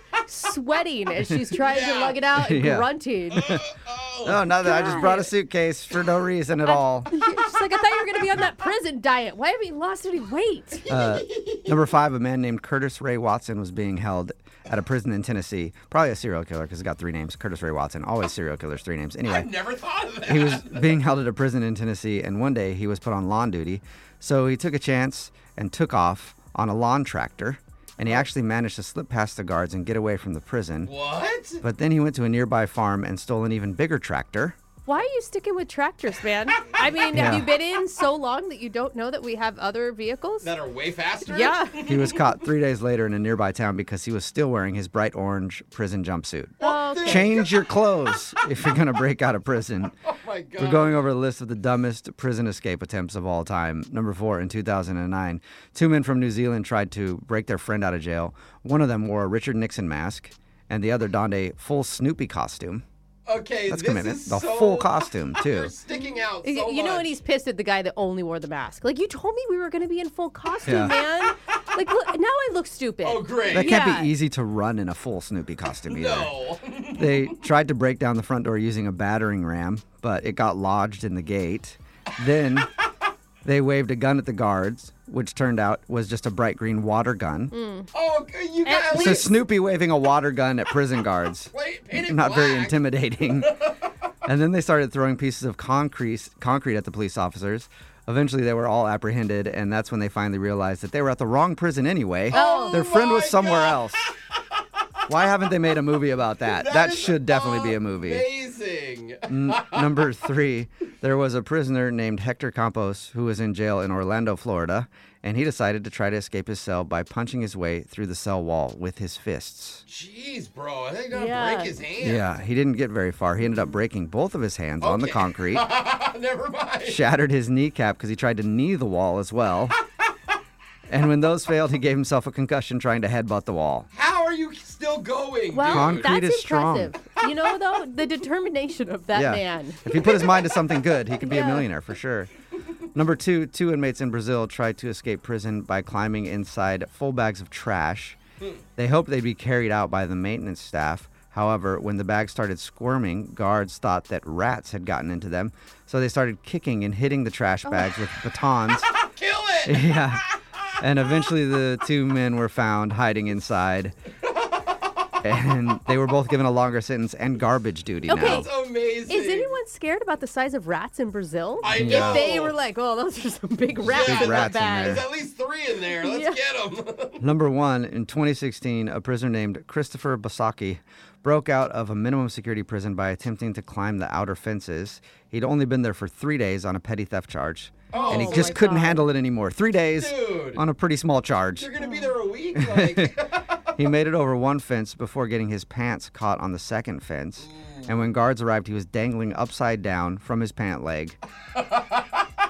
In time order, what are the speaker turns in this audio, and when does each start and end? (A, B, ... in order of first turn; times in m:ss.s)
0:00.3-0:03.5 A
0:01.6-0:02.2 B
0:02.3-0:03.7 C
0:03.3-0:04.5 B
0:04.2-0:07.1 C
0:04.6-0:05.3 A
0:06.6-0:10.9 A
0:10.9-0:11.9 B
0:10.9-0:19.5 C
0:19.2-0:21.0 B
0:20.2-0:30.9 C
0:30.8-0:31.6 B
0:31.6-0:34.6 C
0:34.9-0:40.5 A
0:37.1-0:37.5 C
0:40.4-0:42.2 B
0:41.3-0:41.9 A
0:41.8-0:49.9 C
0:46.6-0:47.4 A
0:46.6-0:47.8 B
0:50.0-0:51.1 B
0:50.6-1:02.8 C
1:03.3-1:07.1 B
1:03.7-1:05.7 C
1:05.9-1:14.1 A
1:10.6-1:11.0 C
1:13.0-1:13.8 B
1:13.5-1:16.3 C
1:15.9-1:17.5 B
1:16.9-1:22.7 C
1:23.4-1:27.6 C
1:27.5-1:27.9 A
1:27.9-1:29.4 B
1:28.6-1:29.3 A
1:28.9-1:33.6 C
1:31.5-1:33.9 B
1:34.2-1:44.0 C
1:42.3-1:42.9 A
1:42.3-1:44.8 B
1:45.1-1:48.3 C
1:46.4-1:50.1 B
1:49.3-1:59.8 C
1:59.9-2:02.4 B
2:01.1-2:01.8 A
2:02.0-2:05.7 C
2:04.8-2:07.1 B
2:06.8-2:09.8 C
2:10.9-2:13.9 C
2:13.9-2:16.1 B
2:15.5-2:20.0 A
2:15.6-2:17.0 C
2:19.1-2:22.3 C
2:19.9-2:20.5 B
2:21.1-2:21.7 A
2:22.9-2:28.2 C
2:28.8-2:38.9 C
2:37.6-2:37.9 A
2:38.9-2:40.1 B
2:39.6-2:40.2 C
2:40.8-2:44.0 C
2:45.2-2:48.5 C
2:48.0-2:48.5 A
2:48.2-2:49.5 B
2:49.1-2:55.1 A
2:51.6-2:52.6 B
2:51.7-2:52.3 C
2:53.8-2:55.0 C
2:53.8-2:57.3 B
2:56.0-2:56.4 A
2:57.2-3:11.7 C
3:07.9-3:08.6 B
3:07.9-3:09.1 A
3:10.0-3:10.6 B
3:11.6-3:13.6 B
3:11.8-3:12.1 A
3:12.6-3:13.2 C
3:13.8-3:21.2 C
3:17.4-3:18.1 B
3:21.5-3:22.2 B